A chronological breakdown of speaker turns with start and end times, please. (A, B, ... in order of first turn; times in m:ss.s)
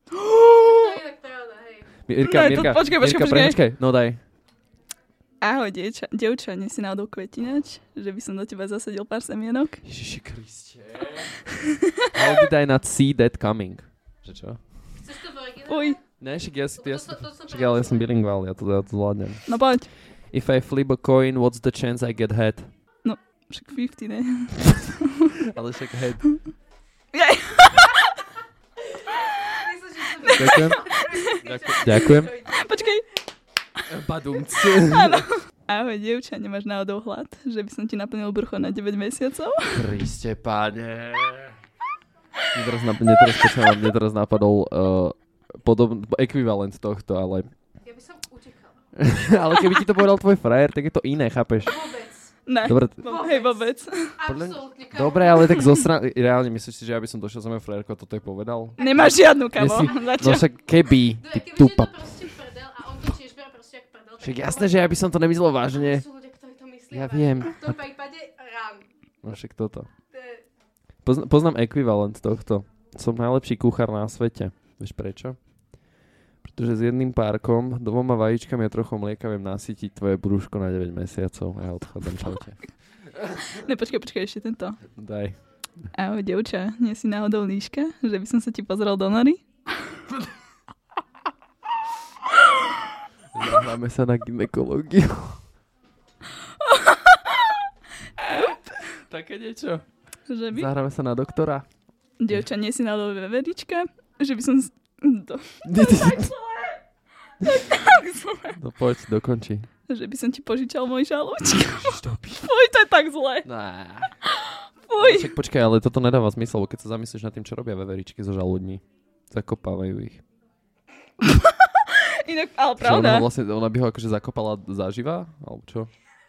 0:00.1-0:01.0 A
0:00.5-0:01.9 B
0:02.1-0:04.2 C
0:02.2-0:03.6 A
0:05.4-0:09.8 A
0:09.8-0:11.4 C
0:12.1-0:14.9 C
0:15.0-0:16.1 B
0:15.7-0:16.0 A
0:16.2-0:22.7 C
0:16.8-0:18.1 B
0:19.5-0:19.9 A
0:23.0-0:25.3 A
0:25.5-0:26.3 C
0:27.1-0:28.1 A
0:29.0-0:33.0 B
0:30.2-0:31.4 A
0:30.3-0:32.3 C
0:32.5-0:33.0 A
0:33.9-0:35.3 C
0:34.9-0:39.8 A
0:39.7-0:41.6 C
0:42.5-0:47.5 C
0:47.8-0:48.8 B
0:49.0-0:51.7 C
0:51.6-0:55.8 B
0:52.5-0:54.2 A
0:52.6-0:53.1 C
0:54.2-1:02.1 C
0:58.8-0:59.1 B
0:58.8-1:00.5 A
1:01.2-1:05.2 B
1:04.2-1:06.0 C
1:05.7-1:08.9 B
1:06.9-1:07.8 C
1:09.2-1:09.9 C
1:10.1-1:10.4 B
1:11.0-1:15.4 C
1:16.4-1:22.7 C
1:23.6-1:24.8 A
1:25.0-1:25.4 C
1:25.9-1:29.4 A
1:33.3-1:35.4 C
1:36.6-1:37.5 A
1:38.2-1:39.9 C
1:40.3-1:40.7 A
1:40.5-1:41.7 C
1:42.2-1:46.7 A
1:45.6-1:46.3 C
1:47.4-1:48.6 A
1:48.6-1:49.7 C
1:49.9-1:53.5 A
1:51.5-1:52.5 C
1:53.4-1:54.2 C
1:54.3-1:55.3 A
1:55.0-2:00.2 C
2:01.2-2:03.3 A
2:02.8-2:05.9 C